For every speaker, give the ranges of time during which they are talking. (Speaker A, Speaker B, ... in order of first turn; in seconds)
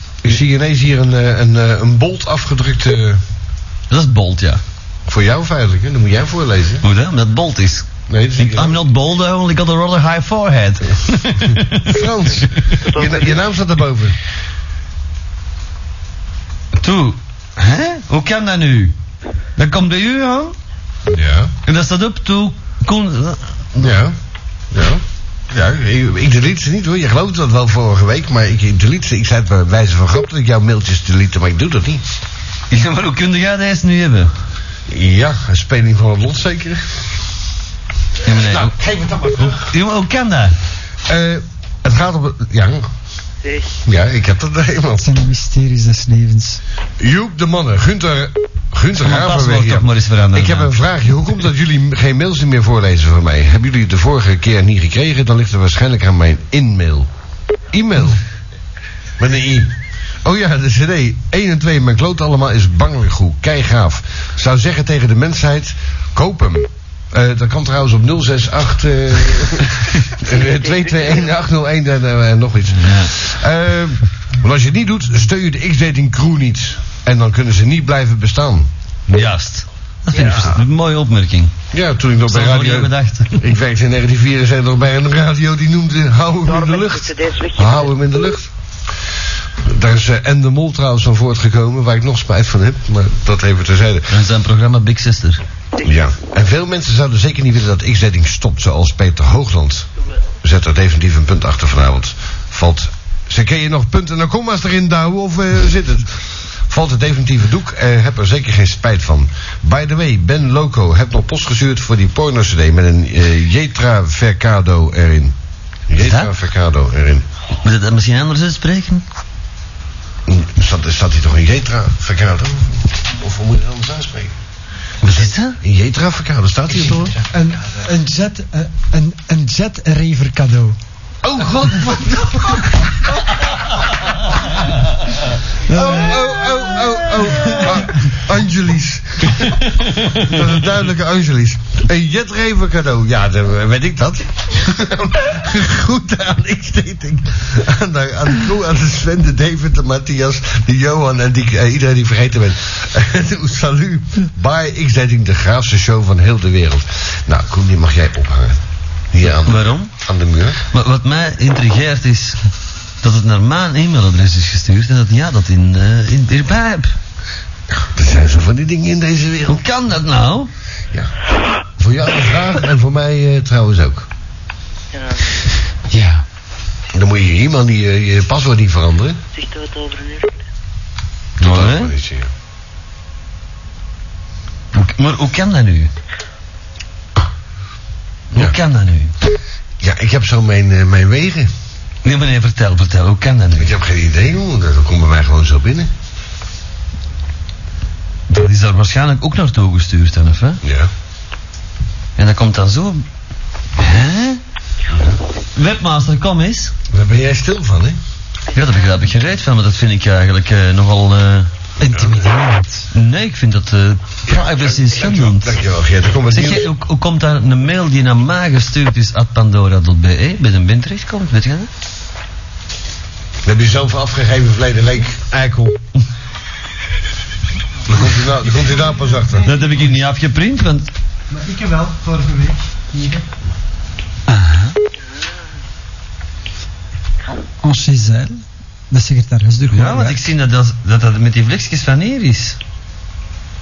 Speaker A: 0.2-3.2, 5.1-6.8, 8.1-8.8, 11.5-14.2, 21.1-21.5, 23.8-24.1, 24.7-32.0, 34.9-37.0, 38.2-39.7, 41.0-42.9, 43.8-45.1, 47.0-57.1, 57.7-58.2, 59.2-78.7, 80.1-80.6, 81.7-88.5, 89.6-94.1, 95.8-99.9, 100.4-115.3, 115.9-117.2, 120.2-124.3, 125.0-127.2, 131.2-133.2, 135.7-160.6, 167.7-169.6, 171.8-174.1, 176.9-179.2, 181.4-182.3, 189.8-191.5, 193.6-195.9, 200.6-200.9, 204.9-205.2, 206.9-208.0, 211.8-212.2, 214.6-216.7, 223.4-225.8, 227.9-229.5
Speaker B: 3.9-4.6, 6.8-12.7, 16.7-18.9, 19.6-20.6, 21.6-23.9, 32.7-34.3, 38.2-38.7, 39.4-40.5, 49.0-50.7, 72.7-73.1, 79.1-81.5, 82.3-83.4, 94.1-95.4, 116.0-116.3, 117.6-119.0, 125.0-125.6, 159.3-159.9, 160.7-162.4, 163.0-166.9, 169.5-170.5, 181.4-181.9, 184.7-185.9, 188.3-189.1, 192.0-193.7, 198.3-200.6, 202.2-203.1, 203.8-204.4, 205.5-206.7, 208.5-211.5, 212.9-215.6, 216.3-221.7, 229.4-230.9, 239.7-242.6
Speaker C: 12.8-13.4, 43.4-43.8, 70.2-71.3, 86.4-87.9, 174.9-175.2, 179.3-180.4
Speaker D: 45.0-46.6, 127.3-130.8, 135.7-137.8, 175.9-176.2, 211.8-212.9, 234.3-234.8, 237.6-240.3
Speaker E: 228.6-229.7, 231.3-233.2